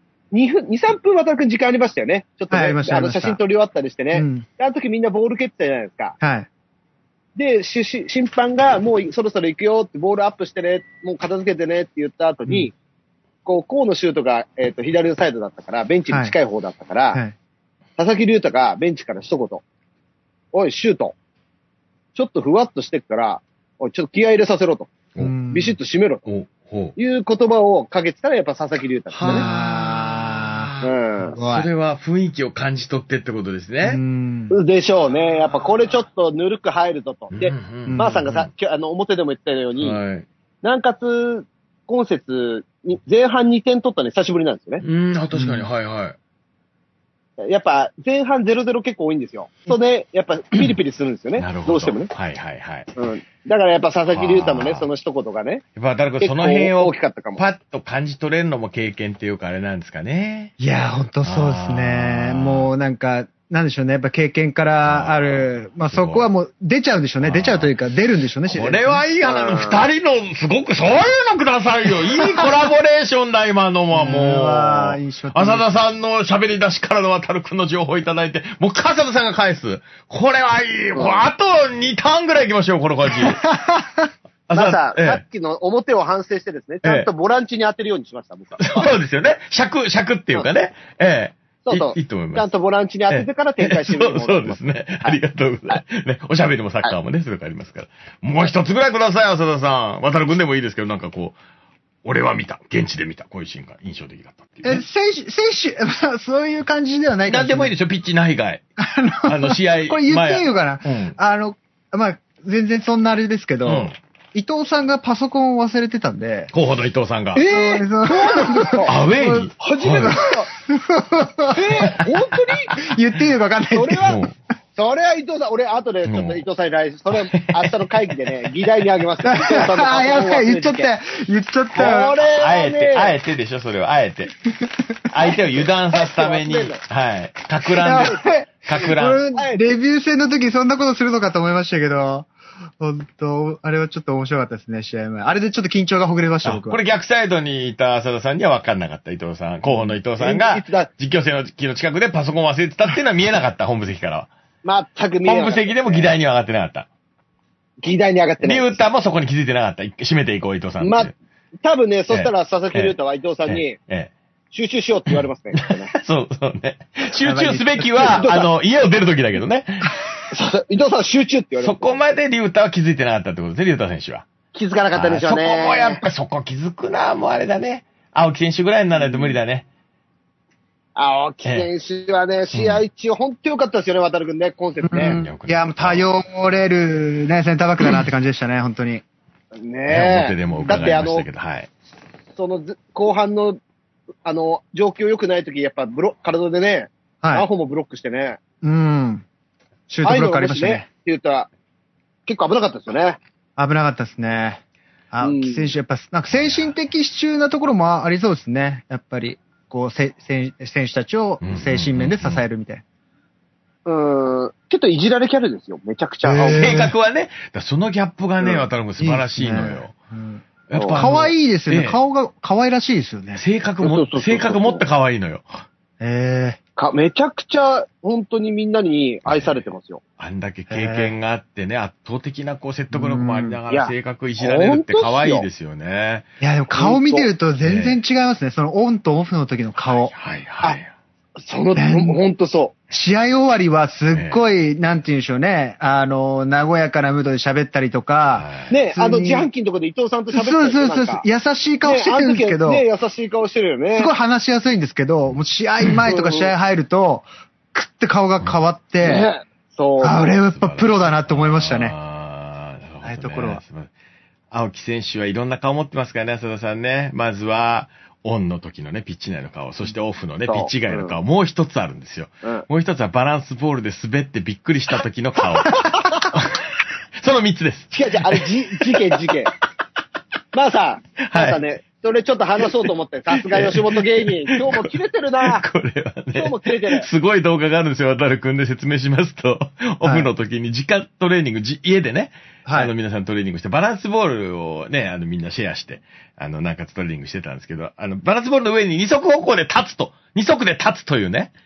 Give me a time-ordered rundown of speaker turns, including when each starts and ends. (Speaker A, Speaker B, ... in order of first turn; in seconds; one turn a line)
Speaker A: 0.3-6.2
Speaker B: 2.5-3.4
Speaker B: 4.1-4.5
Speaker B: 6.2-6.5
Speaker A: 7.4-12.7
Speaker A: 13.4-17.2
Speaker A: 18.0-19.6
Speaker A: 20.5-21.1
Speaker A: 22.1-24.9
Speaker B: 25.2-25.8
Speaker A: 25.5-26.2
Speaker C: 26.3-27.0
Speaker A: 27.0-29.5
Speaker C: 29.1-34.0
Speaker B: 29.2-31.7
Speaker A: 30.8-31.4
Speaker B: 33.8-34.6
Speaker A: 34.5-40.0
Speaker C: 35.1-36.0
Speaker C: 37.3-38.5
Speaker B: 37.9-38.3
Speaker C: 39.8-40.3
Speaker A: 40.6-44.8
Speaker C: 44.8-46.2
Speaker B: 45.3-45.7
Speaker A: 47.4-52.1
Speaker C: 51.4-52.9
Speaker A: 53.0-55.6
Speaker C: 54.1-54.9
Speaker C: 55.8-60.5
Speaker A: 56.2-57.4
Speaker B: 60.6-69.0
Speaker C: 61.2-62.7
Speaker C: 64.8-66.3
Speaker C: 67.2-67.7
Speaker C: 68.5-83.4
Speaker A: 69.2-69.8
Speaker B: 73.9-75.8
Speaker A: 81.0-81.2
Speaker B: 83.3-84.1
Speaker C: 84.5-85.2
Speaker A: 84.5-88.9
Speaker C: 86.8-87.1
Speaker C: 88.6-92.5
Speaker A: 91.7-95.2
Speaker C: 93.1-101.4
Speaker C: 102.0-104.8
Speaker B: 104.6-107.7
Speaker C: 107.3-108.6
Speaker B: 108.8-116.5
Speaker C: 109.3-111.2
Speaker C: 113.7-114.0
Speaker C: 116.5-117.4
Speaker A: 117.3-119.0
Speaker B: 117.5-119.5
Speaker C: 118.8-120.2
Speaker A: 119.6-120.5
Speaker B: 120.5-122.1
Speaker A: 121.5-122.7
Speaker B: 122.8-124.2
Speaker A: 123.7-124.2
Speaker C: 124.0-124.3
Speaker A: 124.8-130.9
Speaker C: 126.0-126.4
Speaker C: 127.1-128.2
Speaker B: 129.2-132.2
Speaker A: 131.8-133.2
Speaker C: 132.2-134.3
Speaker B: 134.6-135.0
Speaker C: 135.1-139.2
Speaker A: 135.9-136.8
Speaker B: 137.8-146.8
Speaker A: 137.8-138.3
Speaker A: 139.3-139.7
Speaker C: 146.4-154.3
Speaker A: 150.2-150.9
Speaker A: 154.6-156.1
Speaker C: 155.2-156.9
Speaker A: 157.8-158.8
Speaker C: 158.4-161.2
Speaker A: 160.8-161.1
Speaker A: 161.6-163.8
Speaker C: 162.1-162.9
Speaker C: 163.5-164.1
Speaker A: 164.5-165.9
Speaker C: 165.1-169.9
Speaker B: 167.2-168.3
Speaker A: 168.1-168.5
Speaker A: 170.3-172.0
Speaker C: 171.6-174.3
Speaker A: 174.5-176.0
Speaker C: 174.9-179.7
Speaker A: 179.1-179.3
Speaker A: 181.0-185.2
Speaker C: 181.4-181.7
Speaker C: 182.5-182.8
Speaker B: 184.8-189.0
Speaker C: 185.0-186.1
Speaker A: 189.6-191.3
Speaker C: 189.9-191.7
Speaker B: 190.6-190.9
Speaker A: 192.4-193.6
Speaker A: 194.2-198.4
Speaker B: 198.6-199.2
Speaker B: 199.9-200.9
Speaker A: 200.0-201.5
Speaker A: 202.3-203.2
Speaker B: 203.6-212.8
Speaker A: 205.2-205.7
Speaker C: 206.4-206.7
Speaker C: 211.4-212.4
Speaker A: 213.9-216.8
Speaker B: 216.2-216.9
Speaker C: 216.5-219.9
Speaker B: 219.0-220.4
Speaker C: 220.7-222.0
Speaker A: 220.8-221.1
Speaker B: 220.9-223.4
Speaker C: 223.4-225.6
Speaker A: 223.8-224.8
Speaker B: 226.0-226.6
Speaker A: 226.8-230.0
Speaker C: 229.3-236.3
Speaker B: 230.7-231.1
Speaker B: 232.9-233.6
Speaker A: 233.7-235.5
Speaker B: 236.4-240.1
Speaker A: 236.7-237.3
Speaker C: 237.6-238.0
Speaker C: 240.0-240.9
Speaker A: 241.4-242.8
Speaker B: 241.8-242.2
Speaker B: 242.9-249.5
Speaker C: 244.1-244.4
Speaker C: 248.3-248.8
Speaker A: 248.7-251.2
Speaker B: 250.3-252.8
Speaker A: 251.8-254.1
Speaker B: 253.9-259.3
Speaker A: 256.1-256.5
Speaker A: 259.0-260.3
Speaker B: 260.0-261.9
Speaker C: 260.3-263.9
Speaker B: 263.0-263.6
Speaker C: 264.5-279.2
Speaker A: 270.5-271.2
Speaker A: 277.9-279.5
Speaker A: 280.5-285.6
Speaker C: 281.2-281.6
Speaker C: 283.4-301.5
Speaker A: 286.4-287.1
Speaker B: 290.0-290.3
Speaker B: 292.6-292.9